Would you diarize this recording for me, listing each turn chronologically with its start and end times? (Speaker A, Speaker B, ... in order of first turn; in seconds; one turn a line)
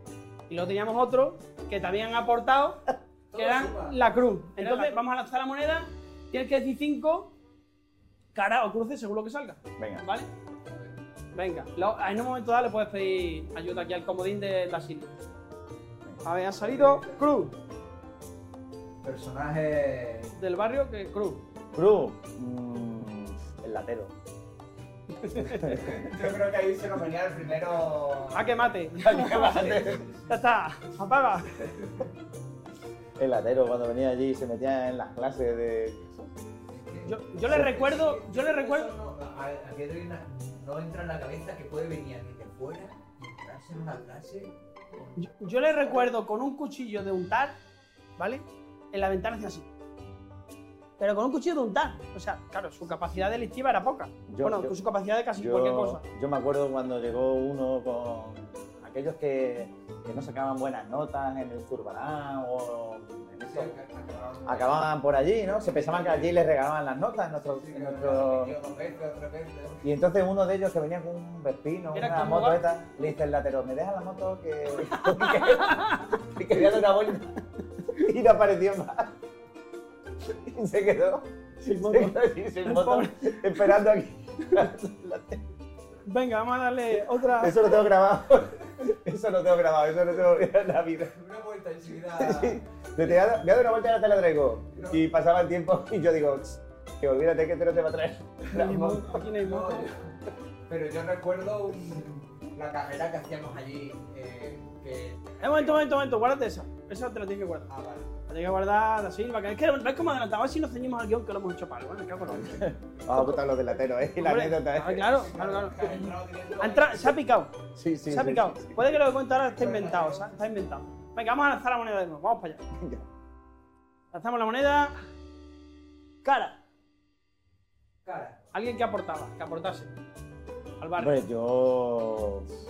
Speaker A: 0.5-2.8
Speaker B: 3.3-4.0
Speaker A: 3.4-7.3
Speaker B: 4.6-5.0
Speaker A: 8.3-10.3
Speaker C: 9.8-10.0
Speaker A: 11.3-15.1
Speaker A: 16.2-17.5
Speaker B: 16.6-17.5
Speaker B: 19.0-20.3
Speaker A: 20.4-21.4
Speaker C: 21.7-24.1
Speaker A: 25.1-25.8
Speaker C: 25.4-26.2
Speaker B: 25.6-28.7
Speaker A: 28.3-31.6
Speaker C: 29.0-30.1
Speaker B: 29.3-30.4
Speaker B: 31.6-32.1
Speaker C: 33.2-36.3
Speaker B: 36.7-46.1
Speaker A: 37.1-38.9
Speaker C: 37.5-37.9
Speaker A: 45.2-47.6
Speaker A: 48.2-49.7
Speaker A: 51.0-56.0
Speaker C: 54.3-54.8
Speaker C: 55.4-63.7
Speaker B: 63.5-64.9
Speaker C: 64.5-68.6
Speaker B: 65.5-66.4
Speaker B: 67.5-69.8
Speaker C: 69.8-79.2
Speaker A: 71.9-72.6
Speaker A: 74.9-76.2
Speaker C: 80.2-85.4
Speaker A: 81.6-83.8
Speaker A: 84.4-84.8
Speaker A: 86.1-87.7
Speaker C: 87.3-91.2
Speaker B: 91.1-93.3
Speaker C: 92.2-99.2
Speaker B: 94.7-95.0
Speaker A: 98.5-99.9
Speaker B: 99.2-100.2
Speaker B: 100.7-105.8
Speaker A: 105.4-107.7
Speaker B: 107.7-108.1
Speaker A: 108.3-112.6
Speaker C: 112.3-115.2
Speaker A: 113.1-113.4
Speaker A: 114.2-117.5
Speaker B: 115.1-117.2
Speaker C: 117.8-119.0
Speaker A: 118.1-122.6
Speaker B: 119.5-120.3
Speaker C: 122.7-123.1
Speaker A: 124.1-125.0
Speaker A: 126.2-126.6
Speaker B: 128.1-128.5
Speaker A: 128.5-129.9
Speaker A: 130.8-131.2
Speaker C: 131.0-132.5